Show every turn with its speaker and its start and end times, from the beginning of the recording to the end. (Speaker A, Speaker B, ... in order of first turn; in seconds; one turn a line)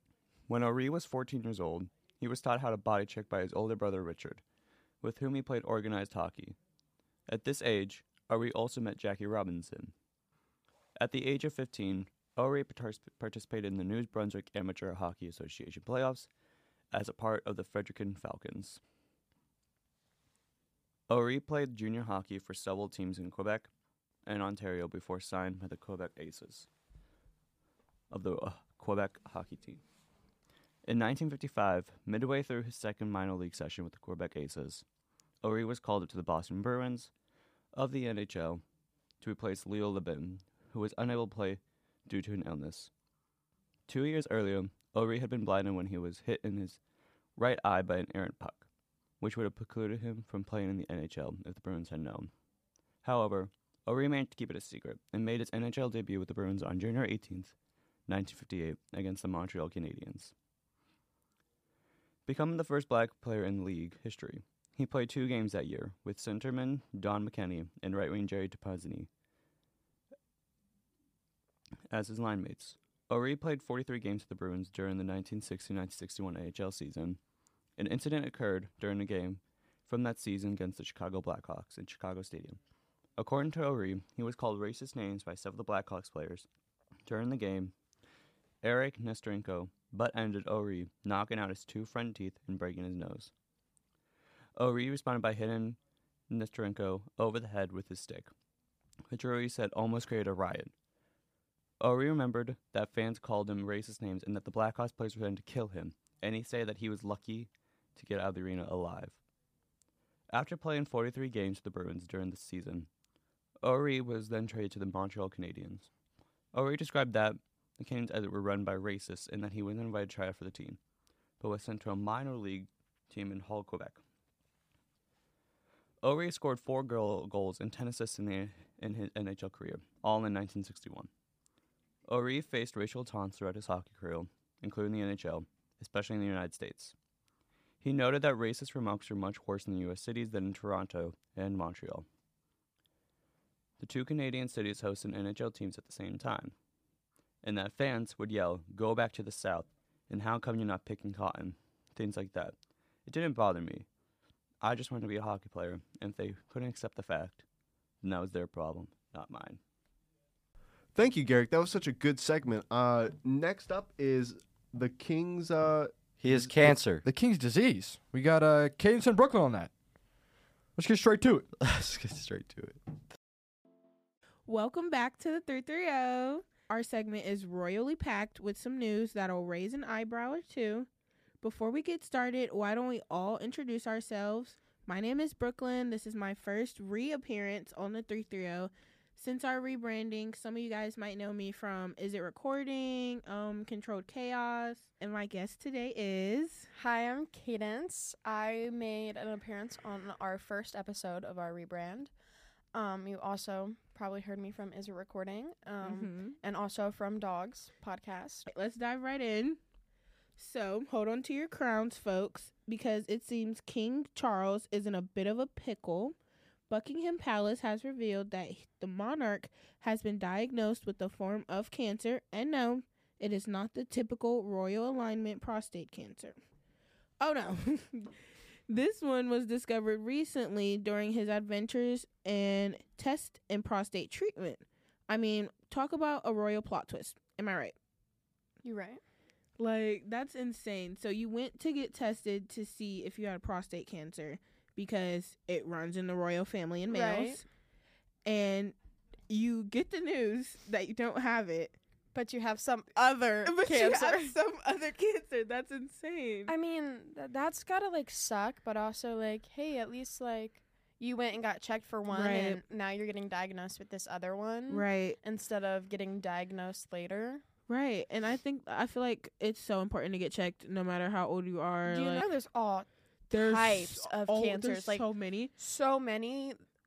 Speaker A: 0.5-4.4
Speaker A: 5.0-6.6
Speaker A: 7.3-9.9
Speaker A: 11.0-16.3
Speaker A: 16.9-18.8
Speaker A: 21.1-23.7
Speaker A: 24.2-26.7
Speaker A: 28.1-29.8
Speaker A: 30.9-34.8
Speaker A: 35.4-37.1
Speaker A: 37.7-38.6
Speaker A: 39.2-42.9
Speaker A: 43.9-46.8
Speaker A: 47.4-48.6
Speaker A: 49.2-52.3
Speaker A: 53.0-57.5
Speaker A: 58.1-60.3
Speaker A: 62.2-69.1
Speaker A: 71.9-77.2
Speaker A: 77.8-82.6
Speaker A: 83.2-86.5
Speaker A: 87.1-87.7
Speaker A: 88.6-93.3
Speaker A: 94.6-95.8
Speaker A: 96.3-98.3
Speaker A: 99.1-100.7
Speaker A: 101.8-109.2
Speaker A: 110.3-112.9
Speaker A: 113.6-115.9
Speaker A: 116.5-120.8
Speaker A: 121.4-124.0
Speaker A: 126.0-131.1
Speaker A: 132.1-136.9
Speaker A: 137.8-142.1
Speaker A: 143.8-146.5
Speaker A: 147.4-152.5
Speaker A: 153.1-153.9
Speaker A: 154.6-157.4
Speaker A: 158.0-159.6
Speaker B: 160.9-166.5
Speaker C: 166.2-167.0
Speaker D: 166.6-169.7
Speaker D: 170.8-171.5
Speaker C: 171.6-172.8
Speaker E: 174.5-180.9
Speaker E: 181.4-196.7
Speaker F: 196.7-202.1
Speaker F: 202.7-208.5
Speaker E: 205.8-206.4
Speaker E: 208.5-209.6
Speaker E: 210.4-216.1
Speaker E: 216.7-226.4
Speaker E: 227.2-228.1
Speaker E: 228.7-237.8
Speaker F: 238.6-239.0
Speaker E: 239.6-247.4
Speaker F: 246.9-247.4
Speaker E: 248.2-248.8
Speaker E: 249.3-251.8
Speaker F: 252.1-254.4
Speaker E: 253.4-256.5
Speaker F: 256.5-267.4
Speaker E: 262.1-262.6
Speaker E: 264.7-265.2
Speaker E: 267.7-272.3
Speaker F: 271.9-276.6
Speaker E: 273.3-275.5